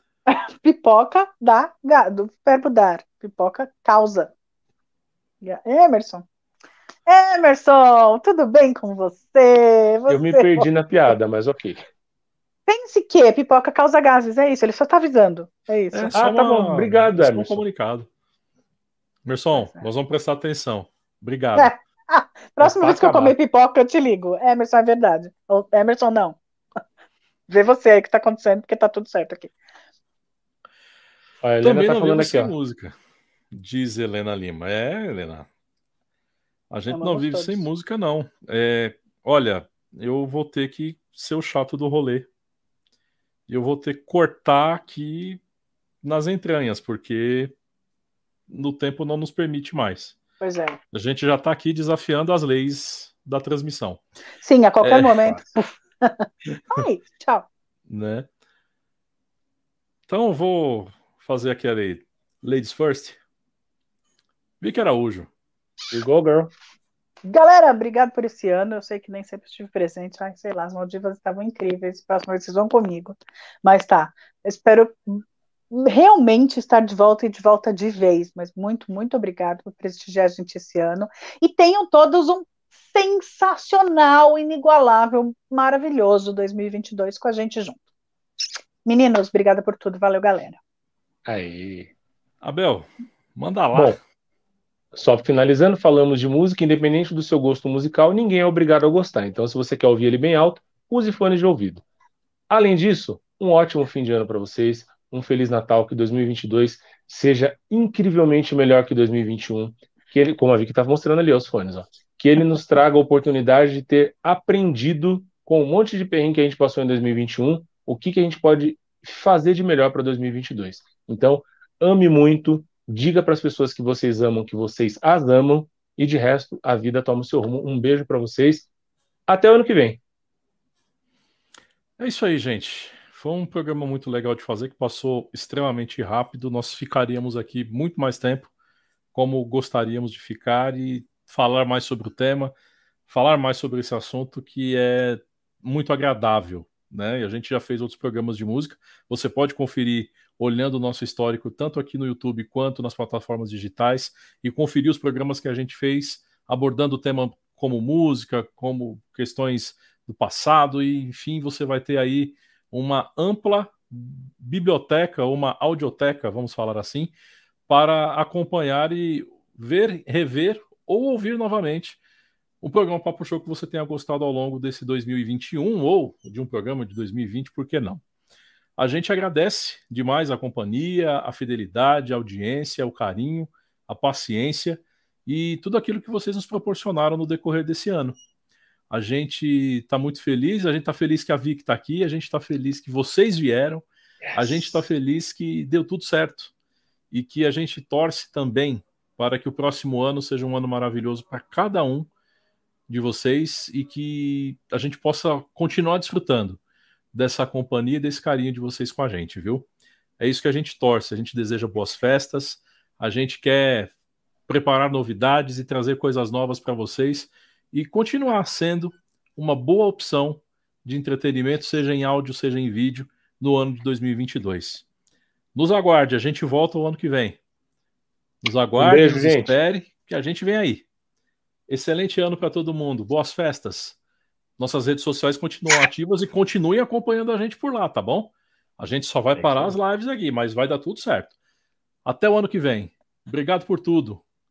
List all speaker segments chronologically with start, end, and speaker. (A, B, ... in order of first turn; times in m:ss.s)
0:00.3-0:04.3 A
0:05.4-0:06.2 A
0:07.1-0:10.7 A
0:10.1-0:11.8 B
0:12.7-0:16.2 A
0:15.9-0:18.1 C
0:16.1-0:17.6 B
0:19.2-0:21.7 C
0:19.5-0:19.9 A
0:21.6-0:26.4 A
0:22.6-0:23.4 B
0:27.5-0:29.5 A
0:31.4-0:32.5 B
0:31.6-0:32.9 C
0:33.5-0:35.5 C
0:36.7-0:42.3 C
0:36.9-0:37.7 A
0:43.5-0:45.4 C
0:46.0-0:47.5 C
0:48.5-0:50.2 C
0:50.4-0:50.8 A
0:50.9-0:54.0 C
0:54.4-0:57.5 A
0:54.8-0:55.4 C
0:57.9-0:58.3 C
1:00.1-1:03.2 C
1:04.6-1:05.3 C
1:05.9-1:06.5 B
1:07.2-1:27.8 A
1:28.8-1:30.6 A
1:31.2-1:31.9 B
1:32.4-1:34.0 C
1:33.7-1:34.0 B
1:34.9-1:41.8 B
1:42.5-2:08.7 B
2:09.3-2:10.0 B
2:12.0-2:18.5 C
2:19.1-2:22.5 C
2:23.1-2:47.1 C
2:47.7-2:52.0 C
2:52.6-2:58.0 C
2:58.8-3:08.2 C
3:08.9-3:16.5 C
3:14.3-3:14.8 B
3:17.1-3:22.1 C
3:22.9-3:26.6 C
3:27.1-3:29.6 C
3:30.2-3:33.9 C
3:34.5-3:44.8 C
3:45.5-3:47.4 C
3:48.4-3:50.9 C
3:48.8-3:49.5 B
3:51.7-3:54.0 C
3:54.6-4:01.3 C
3:59.4-3:59.8 B
4:02.0-4:04.2 C